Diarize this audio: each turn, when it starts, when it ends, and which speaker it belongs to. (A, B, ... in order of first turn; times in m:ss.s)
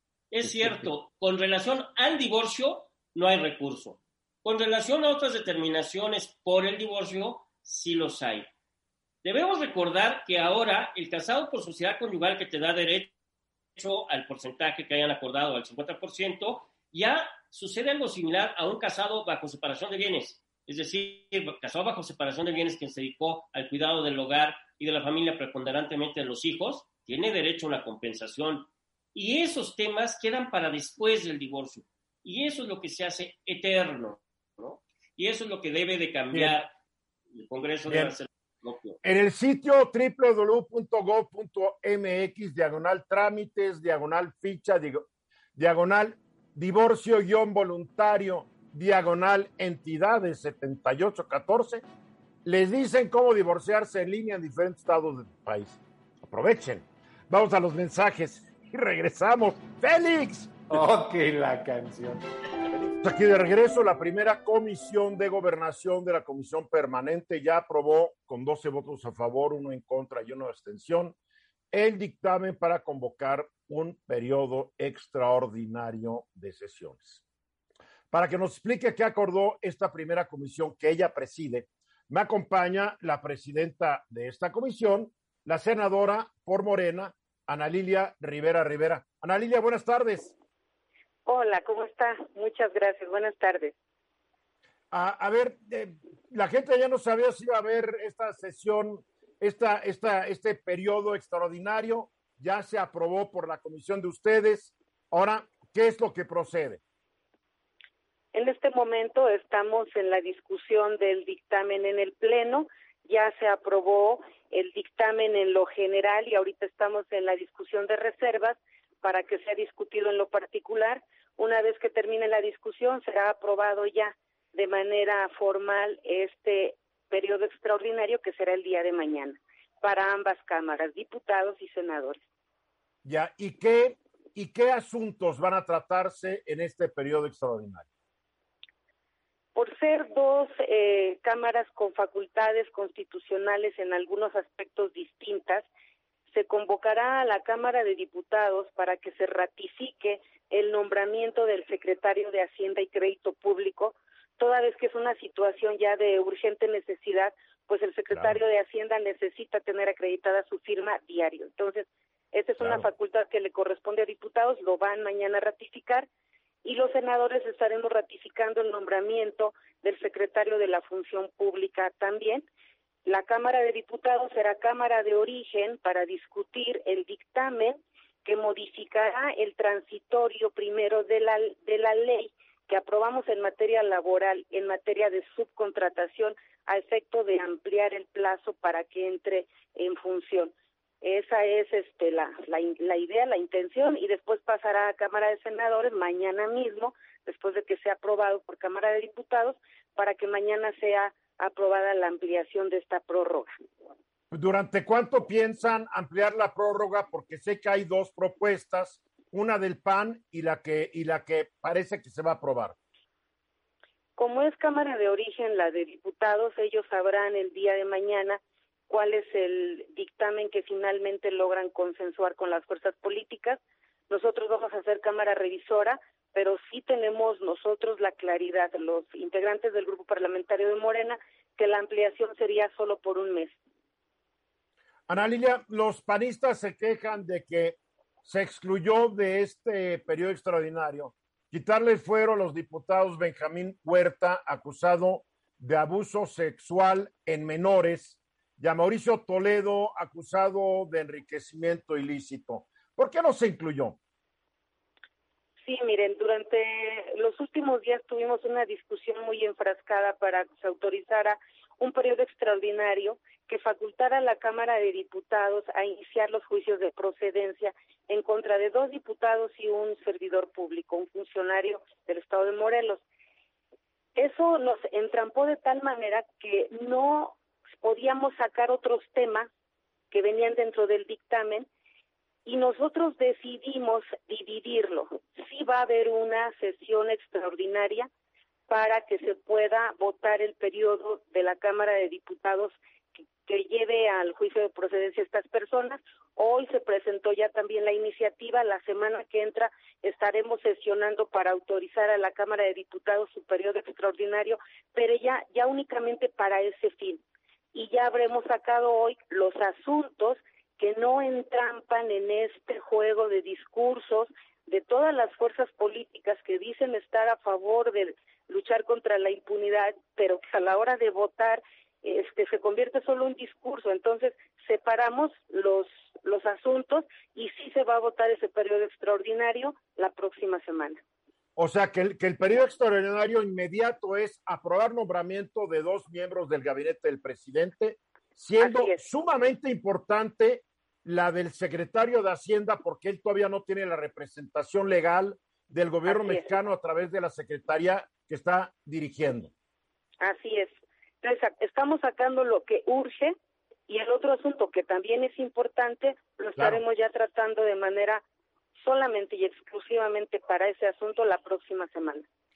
0:00.3-0:08.5 A
0:00.4-0:00.9 B
0:09.2-0:13.1 A
0:13.8-0:36.7 A
0:37.3-0:39.0 A
0:37.9-0:38.1 C
0:39.0-0:51.8 C
0:52.4-1:00.8 C
1:00.7-1:02.2 B
1:03.0-1:11.1 C
1:11.7-1:17.2 C
1:18.1-1:30.3 C
1:31.2-1:33.7 D
1:34.9-1:46.8 C
1:48.3-2:12.2 D
2:13.0-2:17.8 C
2:19.5-2:25.7 D
2:26.3-2:46.1 D
2:38.1-2:38.4 C
2:42.6-2:42.8 C
2:46.6-2:52.5 D
2:53.0-3:23.5 D
3:24.3-3:32.7 C
3:34.2-3:53.6 D
3:55.1-4:14.0 C
4:15.6-4:33.0 D
4:34.2-4:39.5 D
4:40.1-4:41.7 D
4:42.4-4:48.1 D
4:48.7-4:52.8 D
4:53.4-5:07.2 D
5:07.7-5:31.0 D
5:31.6-5:49.5 C
5:38.6-5:39.0 D
5:46.0-5:46.5 D
5:50.2-5:53.4 D
5:53.9-5:58.2 D
5:58.8-6:02.2 D